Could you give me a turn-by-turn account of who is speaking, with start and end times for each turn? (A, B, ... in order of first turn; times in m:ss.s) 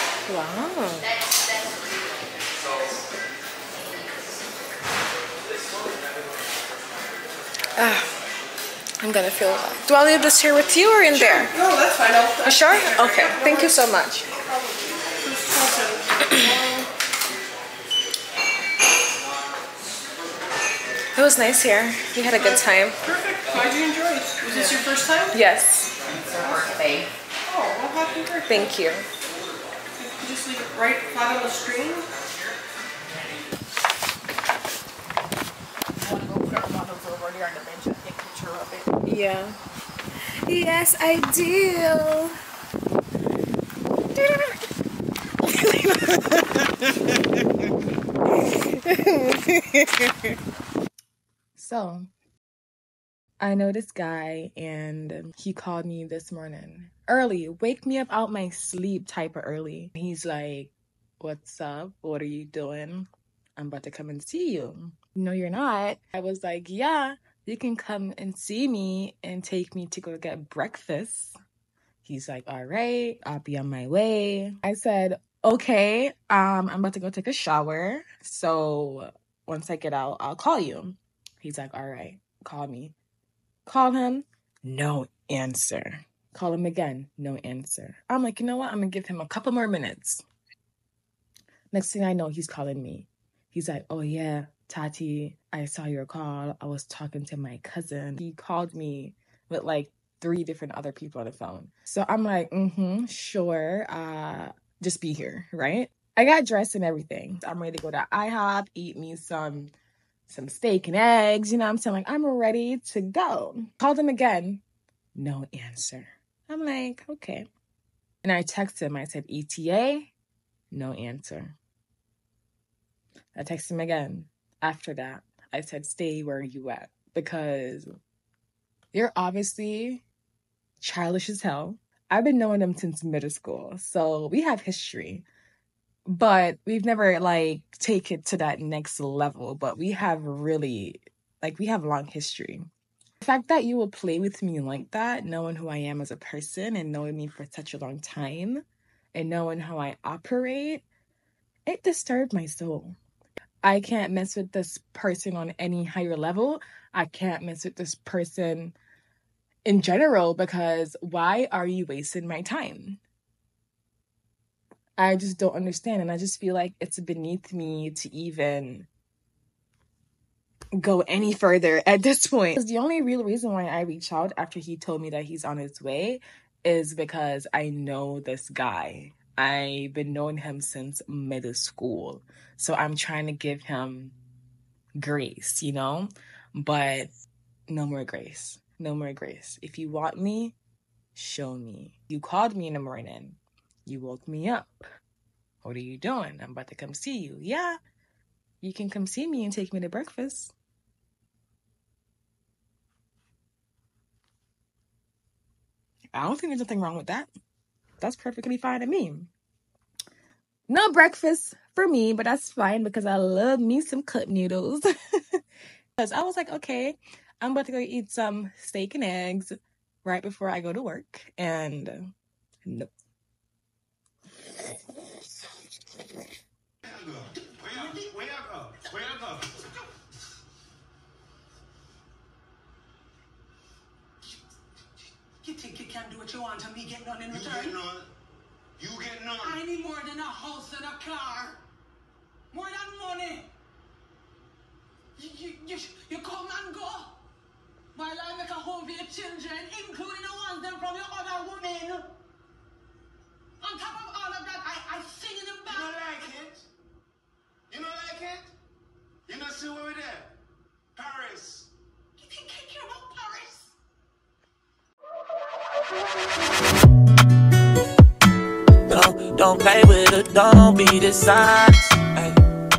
0:00.3-0:01.0 A
0:07.8-0:08.1 A
0:09.0-0:11.5 A
0:11.1-0:16.9 B
0:12.4-0:14.2 A
0:21.1-0:23.0 A
0:22.4-0:25.4 B
0:25.3-0:25.9 A
0:26.0-0:27.1 C
0:27.4-0:28.7 B
0:28.5-0:29.0 A
0:30.0-0:32.1 B
0:36.0-0:38.9 C
0:39.0-0:39.6 A
0:40.4-0:42.3 A
0:44.1-0:44.6 A
0:45.4-0:46.6 A
0:48.8-0:50.0 A
0:51.6-0:52.1 A
0:53.4-1:11.3 A
1:12.0-1:22.9 A
1:23.7-1:30.2 A
1:31.7-1:49.7 A
1:50.3-1:54.6 A
1:55.2-1:57.5 A
1:58.2-2:00.1 A
2:00.7-2:01.5 A
2:03.4-2:07.9 A
2:08.9-2:10.0 A
2:10.8-2:15.2 A
2:16.1-2:22.7 A
2:23.2-2:28.6 A
2:29.1-2:30.8 A
2:31.7-2:33.0 A
2:33.6-2:38.7 A
2:39.6-2:43.0 A
2:45.0-2:48.8 A
2:50.8-3:04.1 A
3:05.0-3:07.1 A
3:07.7-3:10.5 A
3:11.2-3:14.7 A
3:15.6-3:17.8 A
3:18.6-3:20.5 A
3:26.1-3:27.3 A
3:28.0-3:29.3 A
3:30.7-3:34.9 A
3:36.0-3:42.1 A
3:46.8-3:49.6 D
3:47.6-3:48.1 E
3:55.4-3:57.8 E
3:57.2-3:58.1 D
3:58.8-3:59.6 D
3:59.4-4:01.6 E
4:02.5-4:03.5 E
4:05.2-4:07.2 E
4:07.9-4:12.1 E
4:13.6-4:16.3 E
4:15.6-4:16.6 D
4:17.7-4:18.5 D
4:19.3-4:20.3 D
4:21.0-4:21.7 D
4:22.2-4:23.7 E
4:28.9-4:32.4 F